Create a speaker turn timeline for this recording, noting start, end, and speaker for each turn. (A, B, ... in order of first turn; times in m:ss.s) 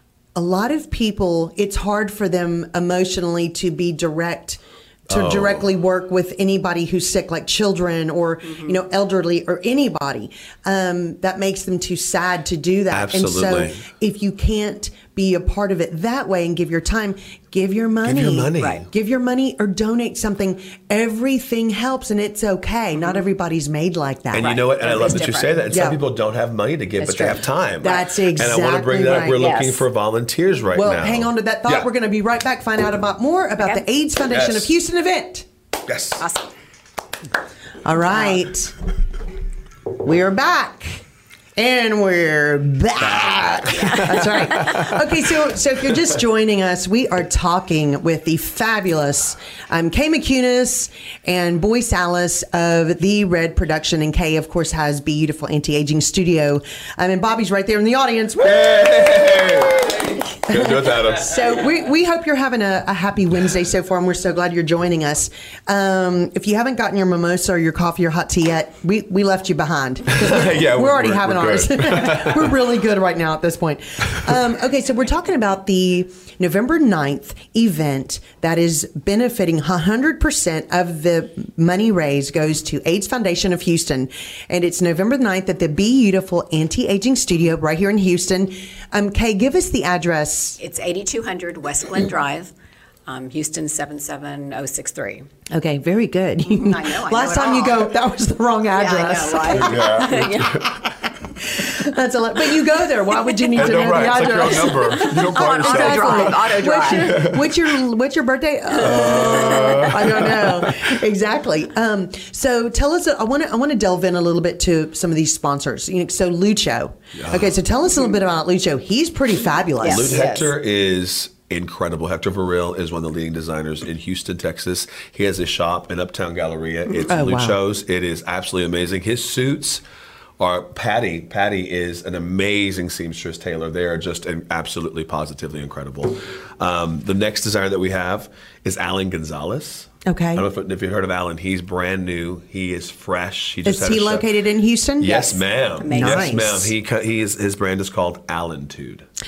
0:00.3-0:24.6 A
0:05.1-0:05.6 B
0:12.9-0:13.8 B
0:18.0-0:18.9 B
0:18.6-0:18.8 C
0:24.3-0:31.9 B
0:24.4-0:25.5 C
0:25.7-0:26.0 A
0:27.0-0:29.4 A
0:27.8-0:28.1 C
0:29.4-0:29.8 C
0:30.7-0:35.4 A
0:34.3-0:34.7 B
0:35.8-0:36.2 B
0:36.2-0:36.5 C
0:37.8-0:38.7 A
0:38.1-0:38.4 C
0:40.0-0:41.0 A
0:41.6-0:59.5 A
0:43.0-0:44.8 B
0:43.7-0:44.4 C
0:58.4-1:01.6 B
1:00.5-1:30.6 A
1:10.1-1:12.5 B
1:30.6-1:32.5 C
1:33.1-1:35.3 C
1:35.5-1:40.8 A
1:36.4-1:37.9 C
1:38.8-1:40.6 C
1:39.5-1:40.8 B
1:41.4-2:00.4 A
1:43.6-1:47.7 B
1:45.0-1:47.1 C
1:48.8-1:50.9 B
1:48.8-1:49.9 C
1:57.2-1:57.5 B
1:59.8-2:00.5 C
1:59.8-2:09.8 B
2:07.1-2:07.6 A
2:10.4-2:24.2 B
2:20.0-2:20.4 A
2:23.6-2:26.7 A
2:25.0-2:29.0 B
2:25.8-2:26.4 C